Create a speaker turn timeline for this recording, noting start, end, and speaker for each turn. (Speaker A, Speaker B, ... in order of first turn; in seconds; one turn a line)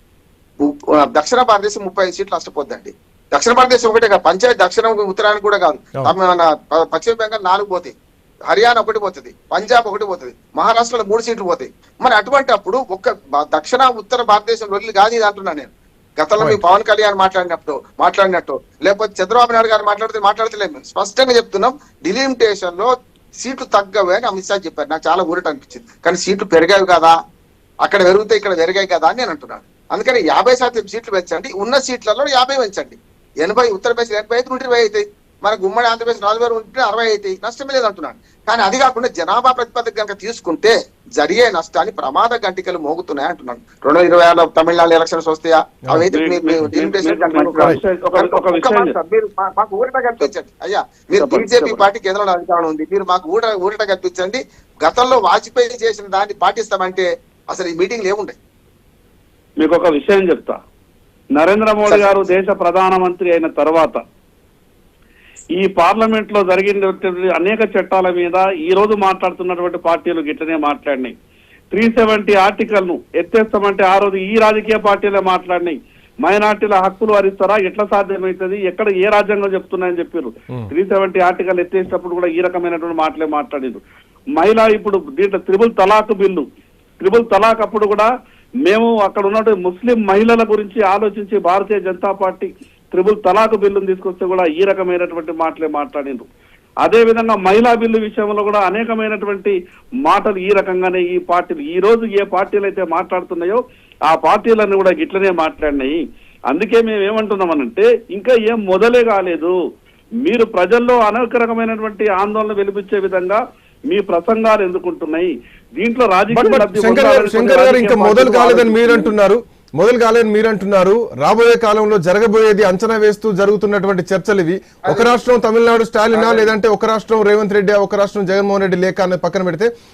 Speaker A: 0.6-8.0
Speaker A: 8.5-27.1
Speaker A: 27.8-58.4
Speaker B: 46.1-49.0
Speaker B: 51.2-51.9
Speaker B: 59.6-60.6
Speaker B: 61.4-64.0
Speaker A: 61.8-62.3
Speaker B: 65.5-71.1
Speaker B: 71.7-83.8
Speaker B: 84.4-86.5
Speaker B: 87.0-88.1
Speaker B: 88.7-96.3
Speaker B: 96.8-106.0
Speaker B: 106.5-109.5
Speaker B: 110.2-119.1
Speaker C: 116.3-129.7
Speaker A: 124.9-125.2
Speaker A: 126.1-126.5